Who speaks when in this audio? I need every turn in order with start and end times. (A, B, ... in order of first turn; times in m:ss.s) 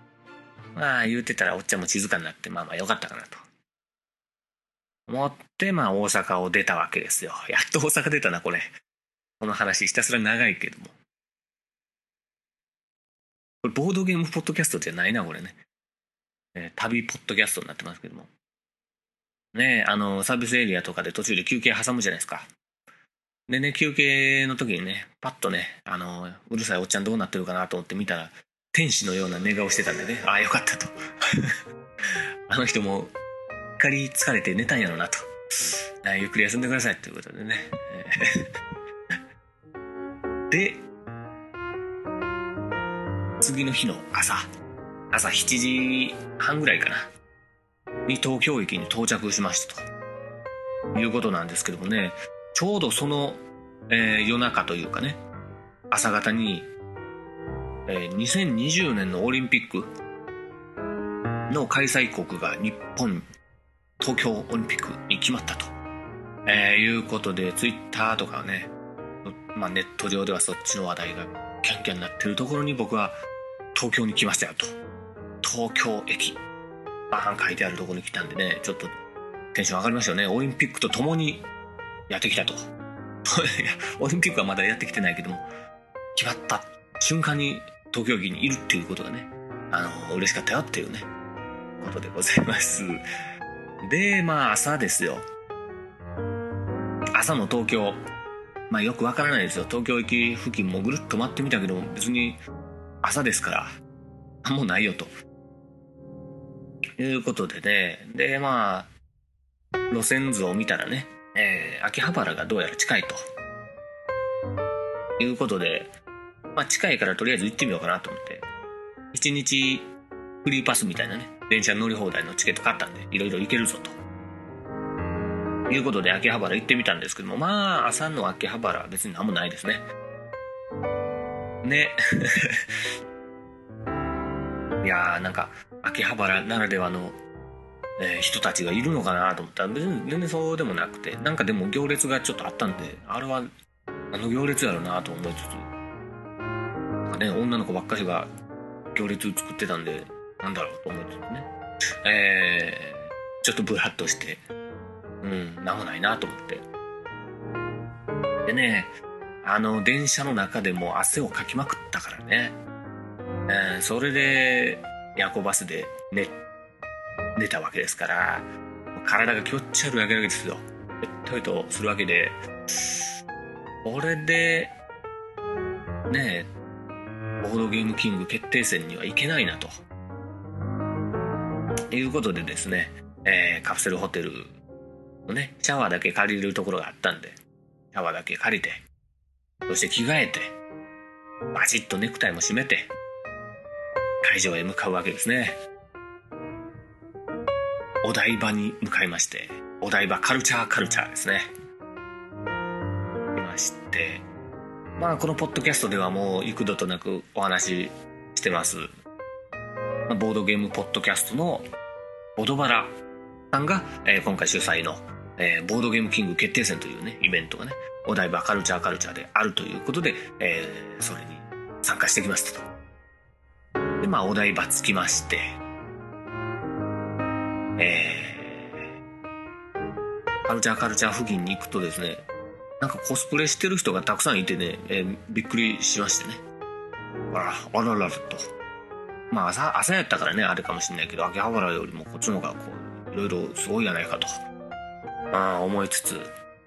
0:00.7-0:03.4 A
0:05.1-0:08.7 A
0:09.4-0:10.9 A
0:13.6-0:15.6 A
0:16.5-0:18.3 A
0:19.5-0:22.5 A
0:23.5-0:31.5 A
0:32.5-0:33.1 A
0:33.8-0:38.5 A
0:40.5-0:40.8 A
0:43.4-0:44.5 A
0:45.1-0:47.1 A
0:48.0-0:49.8 A
0:50.9-0:55.2 A
0:55.9-0:56.7 A
0:57.9-0:59.9 A
1:01.5-1:03.3 A
1:04.0-1:05.7 A
1:06.4-1:08.7 A
1:09.2-1:13.2 A
1:13.7-1:14.8 A
1:15.4-1:16.4 A
1:17.1-1:19.0 A
1:19.5-1:21.4 A
1:22.1-1:22.7 A
1:23.2-1:25.4 A
1:26.1-1:31.1 A
1:31.8-1:33.0 A
1:33.8-1:35.2 A
1:37.1-1:38.0 A
1:38.7-1:42.4 A
1:43.0-1:43.7 A
1:44.4-1:45.1 A
1:47.0-1:48.9 A
1:49.9-1:53.2 A
1:55.2-1:55.9 A
1:56.5-1:58.5 A
1:59.1-1:59.9 A
2:00.4-2:04.0 A
2:05.7-2:09.8 A
2:11.6-2:12.6 A
2:14.8-2:17.2 A
2:18.0-2:23.5 A
2:24.1-2:25.7 A
2:27.0-2:28.3 A
2:28.9-2:31.5 A
2:32.0-2:34.4 A
2:35.2-2:36.6 A
2:38.4-2:38.9 A
2:39.4-2:42.6 A
2:43.5-2:46.4 A
2:47.4-2:53.0 A
2:53.8-2:54.7 A
2:56.1-2:56.5 A
2:57.4-2:59.7 A
3:01.9-3:04.5 A
3:05.3-3:07.4 A
3:07.9-3:08.8 A
3:09.7-3:10.5 A
3:11.5-3:12.9 A
3:14.2-3:15.6 A
3:18.0-3:21.5 A
3:23.3-3:24.2 A
3:25.0-3:28.9 A
3:30.1-3:31.7 A
3:32.4-3:32.9 A
3:33.5-3:42.6 A
3:44.0-3:45.6 A
3:47.8-3:48.9 A
3:50.4-3:52.2 A
3:52.8-3:56.4 A
3:57.3-3:58.4 A
3:59.3-4:04.3 A
4:05.3-4:06.3 A